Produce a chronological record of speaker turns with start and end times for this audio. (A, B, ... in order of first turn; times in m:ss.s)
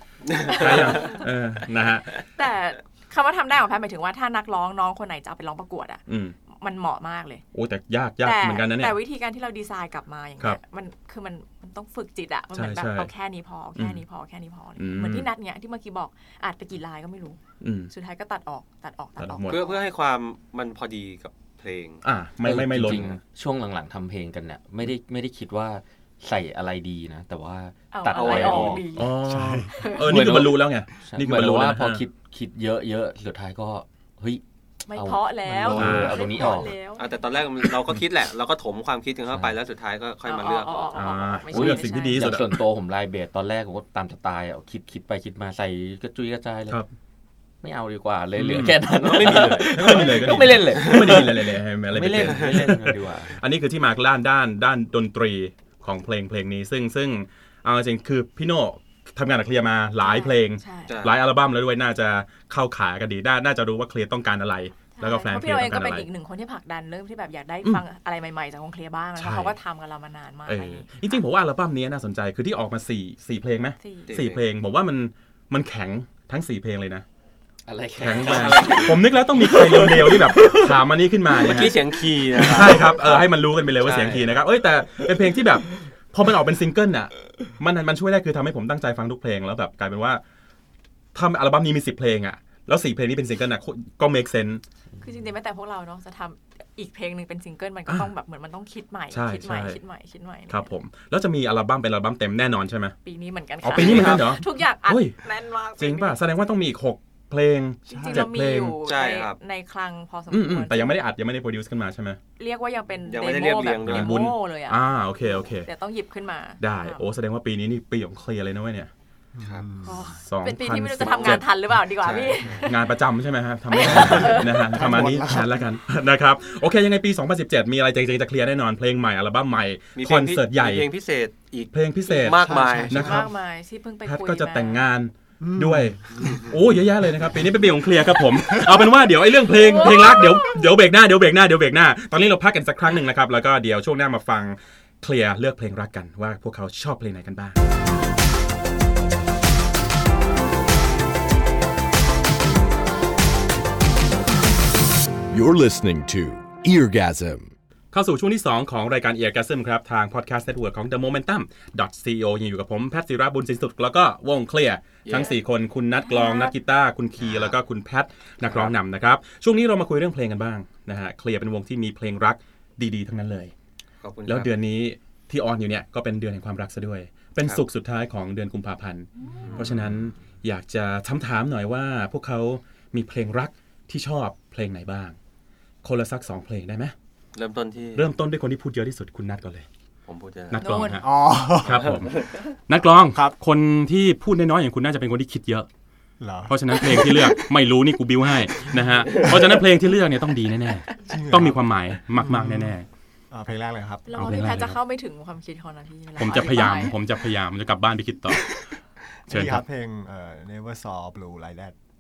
0:00.3-0:01.2 A
0:00.5-0:01.3 B
0:00.5-0:02.2 C
0:02.3-0:07.4 B
0:06.1-0:06.4 C
0:07.5-0:09.0 C
0:08.2-0:17.4 B
0:12.5-0:13.1 C
0:13.8-0:14.0 C
0:14.8-0:15.3 C
0:17.6-0:17.9 C
0:17.9-0:19.8 B
0:19.2-0:19.7 C
0:19.5-0:22.0 A
0:22.0-0:23.2 C
0:22.4-0:28.9 D
0:27.9-0:30.1 B
0:28.1-0:28.8 A
0:28.9-0:32.0 C
0:29.2-0:29.9 E
0:30.0-0:36.7 D
0:34.9-0:37.1 B
0:35.6-0:36.6 C
0:37.0-0:41.0 A
0:40.2-0:42.3 B
0:40.9-0:42.6 C
0:41.5-0:46.8 D
0:47.6-0:53.4 D
0:48.4-1:06.1 C
0:49.0-0:51.3 A
0:52.2-0:52.6 A
1:00.0-1:01.0 B
1:00.9-1:01.2 A
1:05.0-1:11.2 B
1:09.2-1:09.6 C
1:10.5-1:17.0 C
1:13.8-1:14.2 B
1:14.1-1:14.4 A
1:17.7-1:20.7 D
1:18.0-1:21.8 C
1:18.1-1:19.0 A
1:21.3-1:23.2 A
1:21.4-1:21.7 D
1:22.4-1:30.2 C
1:22.5-1:23.1 D
1:23.8-1:24.2 A
1:23.8-1:24.2 D
1:31.1-1:34.6 C
1:35.0-1:40.7 B
1:39.1-1:39.8 C
1:40.5-1:43.0 C
1:43.0-1:46.2 B
1:43.6-1:45.2 C
1:43.8-1:44.3 A
1:45.8-1:48.8 C
1:47.9-1:51.0 B
1:47.9-1:48.3 E
1:48.8-1:49.4 A
1:50.3-1:52.2 C
1:52.4-1:54.8 B
1:53.1-1:54.2 A
1:53.8-1:55.7 C
1:55.6-1:57.1 B
1:56.6-1:58.9 C
1:59.4-2:00.2 E
1:59.4-1:59.7 A
1:59.8-2:02.8 B
2:00.2-2:01.5 C
2:01.0-2:01.4 A
2:02.0-2:02.7 A
2:02.6-2:10.9 C
2:03.7-2:04.8 B
2:03.8-2:05.6 E
2:10.0-2:13.1 A
2:11.7-2:13.3 C
2:12.3-2:13.2 E
2:12.9-2:14.9 B
2:14.0-2:27.6 C
2:15.4-2:16.5 E
2:18.5-2:18.8 E
2:19.5-2:20.6 B
2:35.3-2:37.5 F
2:37.9-2:53.5 C
2:45.0-2:45.4 A
2:46.0-2:46.5 B
2:48.4-2:48.7 A
2:54.0-2:54.5 A
2:54.2-3:05.2 C
2:59.5-2:59.8 A
3:05.8-3:06.9 C
3:07.4-3:08.1 A
3:08.0-3:09.7 C
3:10.1-3:10.6 A
3:10.5-3:11.1 C
3:10.6-3:11.0 B
3:11.0-3:12.2 E
3:11.6-3:15.7 C
3:11.7-3:12.4 A
3:16.2-3:17.4 E
3:16.5-3:22.9 C
3:18.6-3:19.6 E
3:21.0-3:22.8 E
3:23.3-3:24.2 E
3:24.1-3:27.0 B
3:24.2-3:24.8 C
3:26.2-3:28.5 C
3:29.3-3:31.8 E
3:29.3-3:29.6 C